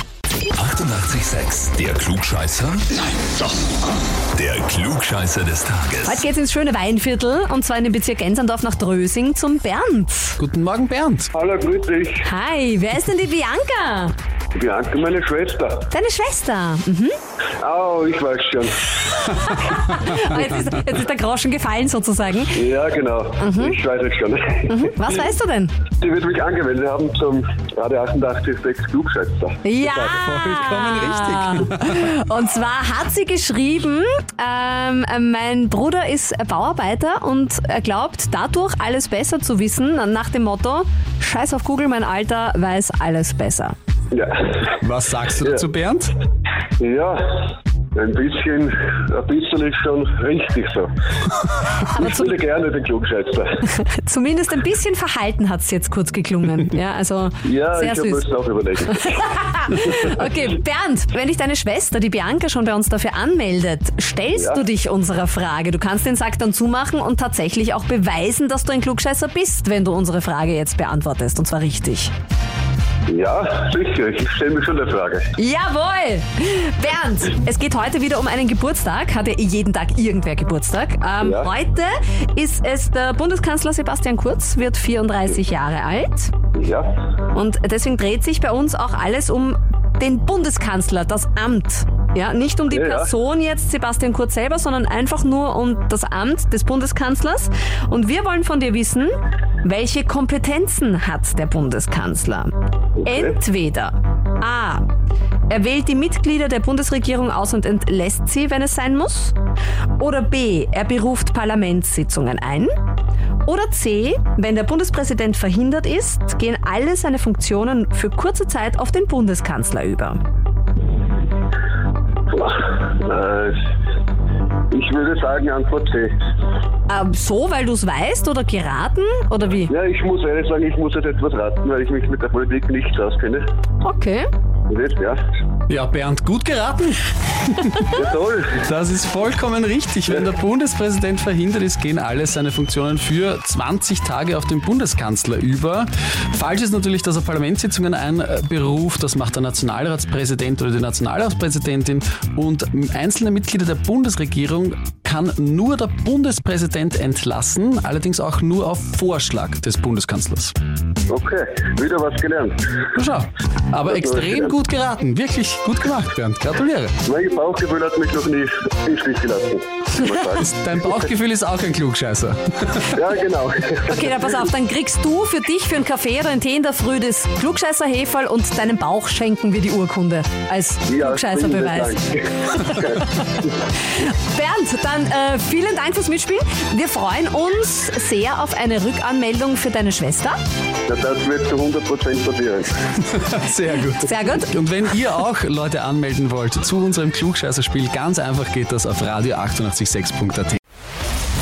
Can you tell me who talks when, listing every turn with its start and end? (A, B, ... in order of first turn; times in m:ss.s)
0:00.5-0:02.9 A
0:04.3-0:06.2 A
0:06.0-0:10.4 B
0:10.4-0:11.3 C
0:11.3-0:12.2 D
0:12.2-0:14.1 B
0:14.5-0:15.9 D
0:15.9-0:17.1 B
0:17.6-0:18.9 D
0:19.2-0:22.6 B
0:22.5-0:24.9 D
0:23.4-0:23.8 B
0:24.7-0:25.8 B
0:26.0-0:29.6 D
0:29.6-0:43.7 B
0:29.8-0:32.0 C
0:44.1-0:44.7 D
0:44.8-0:46.1 C
0:46.8-0:50.9 D
0:51.8-0:52.4 B
0:51.9-0:53.6 D
0:53.6-0:58.2 B
0:57.4-0:59.2 D
0:58.9-1:12.1 B
1:04.4-1:04.6 D
1:13.1-1:15.3 D
1:15.4-1:26.3 B
1:21.2-1:21.5 D
1:26.5-1:26.9 D
1:27.3-1:42.5 B
1:32.7-1:33.1 D
1:43.0-1:43.4 D
1:43.0-1:44.8 B
1:45.5-1:49.4 B
1:50.0-1:52.7 B
1:53.4-2:00.2 B
2:02.3-2:03.6 D
2:04.7-2:06.2 D
2:06.9-2:09.7 B
2:09.7-2:13.4 D
2:13.8-2:14.3 B
2:14.7-2:15.2 D
2:15.7-2:17.9 C
2:17.9-2:18.6 D
2:18.6-2:40.5 C
2:41.1-2:42.6 D
2:42.9-2:46.9 C
2:43.8-2:44.6 D
2:47.0-2:50.5 D
2:50.2-2:52.9 C
2:52.9-2:54.1 D
2:53.9-3:10.4 B
3:00.9-3:03.0 D
3:10.9-3:12.7 D
3:13.0-3:20.6 C
3:14.0-3:14.5 B